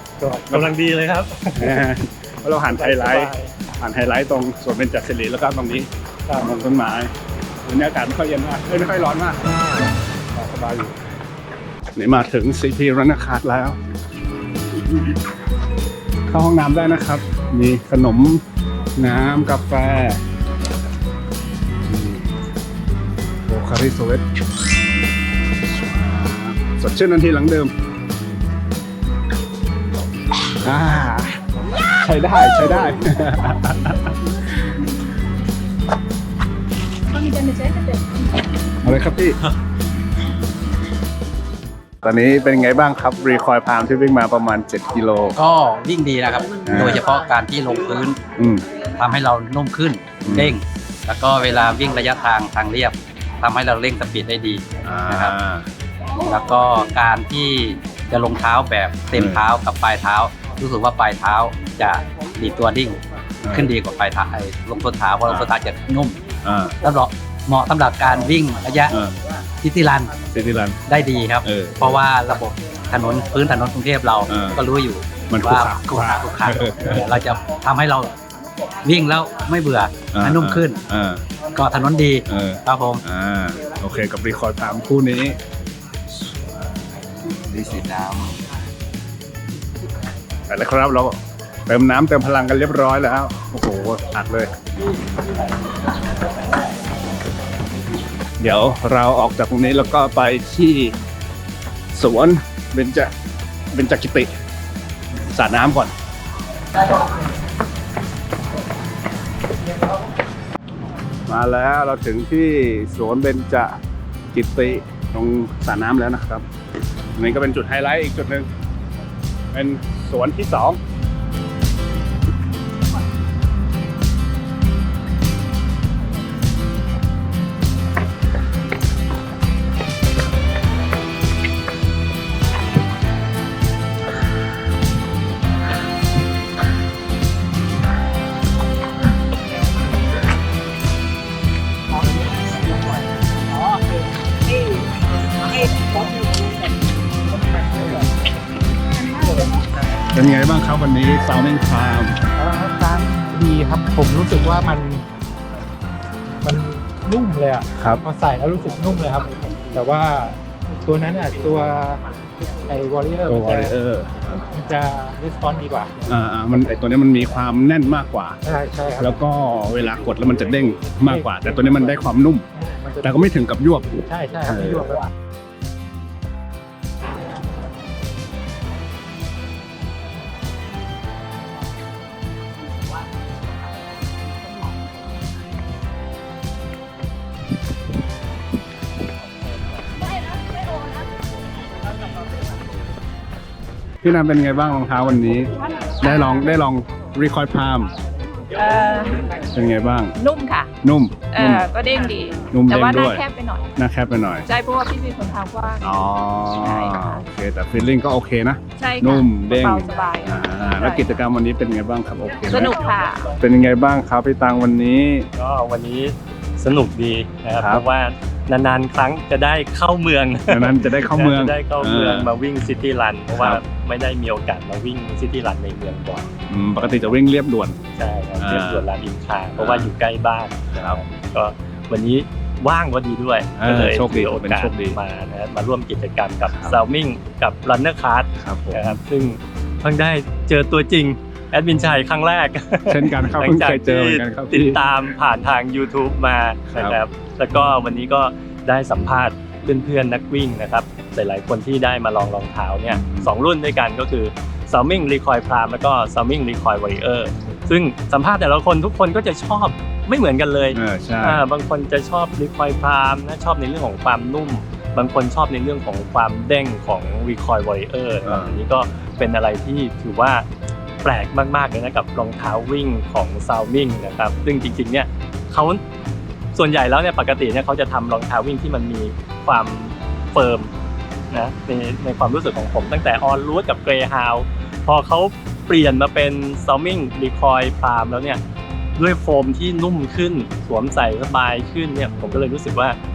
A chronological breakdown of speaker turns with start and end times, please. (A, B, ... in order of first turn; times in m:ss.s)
0:00.2-0:01.9 A
0:01.6-0:07.1 B
0:02.5-0:03.5 A
0:07.6-0:09.6 B
0:10.3-0:10.9 B
0:12.0-0:13.8 B
0:16.3-0:18.4 B
0:19.0-0:20.2 B
0:21.8-0:22.3 B
0:23.5-0:24.2 B
0:25.6-0:27.7 B
0:30.6-0:34.2 B
0:37.1-0:38.0 C
0:38.8-0:39.4 B
0:42.0-0:45.4 B
0:45.4-0:48.2 D
0:46.6-0:47.0 B
0:48.4-0:48.6 B
0:49.0-0:55.3 D
0:50.2-0:50.6 B
0:54.8-0:55.7 B
0:56.2-1:06.2 D
0:59.1-0:59.4 B
1:03.4-1:03.7 B
1:06.4-1:06.8 B
1:06.8-1:08.9 D
1:08.9-1:09.2 B
1:09.6-1:10.1 D
1:10.3-1:10.8 B
1:10.8-1:18.1 D
1:11.4-1:12.0 B
1:14.3-1:14.6 B
1:15.3-1:17.1 B
1:18.8-1:20.8 D
1:20.1-1:21.2 B
1:21.5-1:23.0 D
1:22.3-1:25.4 B
1:26.1-1:26.6 B
1:27.3-1:28.4 B
1:30.5-1:34.6 B
1:38.4-1:41.0 B
1:41.9-1:43.1 B
1:43.7-1:44.3 B
1:45.3-1:45.9 B
1:51.3-1:53.8 B
1:54.3-1:56.4 B
1:57.2-1:58.5 B
1:59.5-2:00.8 B
2:27.5-2:28.1 E
2:30.1-2:32.2 B
2:32.4-2:35.0 E
2:36.4-2:43.7 E
2:37.8-2:38.0 B
2:43.2-2:44.4 B
2:44.4-2:46.0 E
2:46.0-2:48.4 B
2:48.4-2:49.1 E
2:49.0-2:52.4 B
2:51.1-2:51.8 E
2:52.6-2:53.2 E
2:53.0-2:54.8 B
2:54.0-2:55.1 E
3:14.0-3:17.9 B
3:18.5-3:19.3 C
3:19.5-3:20.1 B
3:20.2-3:20.7 C
3:20.8-3:21.7 B
3:21.3-3:23.7 C
3:22.5-3:23.2 B
3:23.8-3:24.5 B
3:24.5-3:25.9 C
3:25.8-3:32.8 B
3:26.5-3:27.2 C
3:28.8-3:31.2 C
3:32.5-3:33.3 C
3:33.4-3:35.3 B
3:35.4-3:46.3 A
3:37.6-3:37.8 B
3:40.5-3:42.3 B
3:43.3-3:43.6 B
3:46.5-3:47.8 B
3:46.8-3:47.1 A
3:48.0-4:30.5 A
3:48.4-3:48.9 B
3:49.5-3:49.9 B
3:50.7-3:51.0 B
3:53.6-3:55.0 B
3:56.4-3:56.8 B
3:58.4-3:59.0 B
4:02.9-4:04.8 B
4:06.7-4:07.0 B
4:12.9-4:13.3 B
4:20.7-4:21.4 B
4:28.2-4:28.6 B
4:31.0-4:35.8 A
4:36.5-4:40.7 A
4:41.3-4:48.4 A
4:49.0-4:53.0 A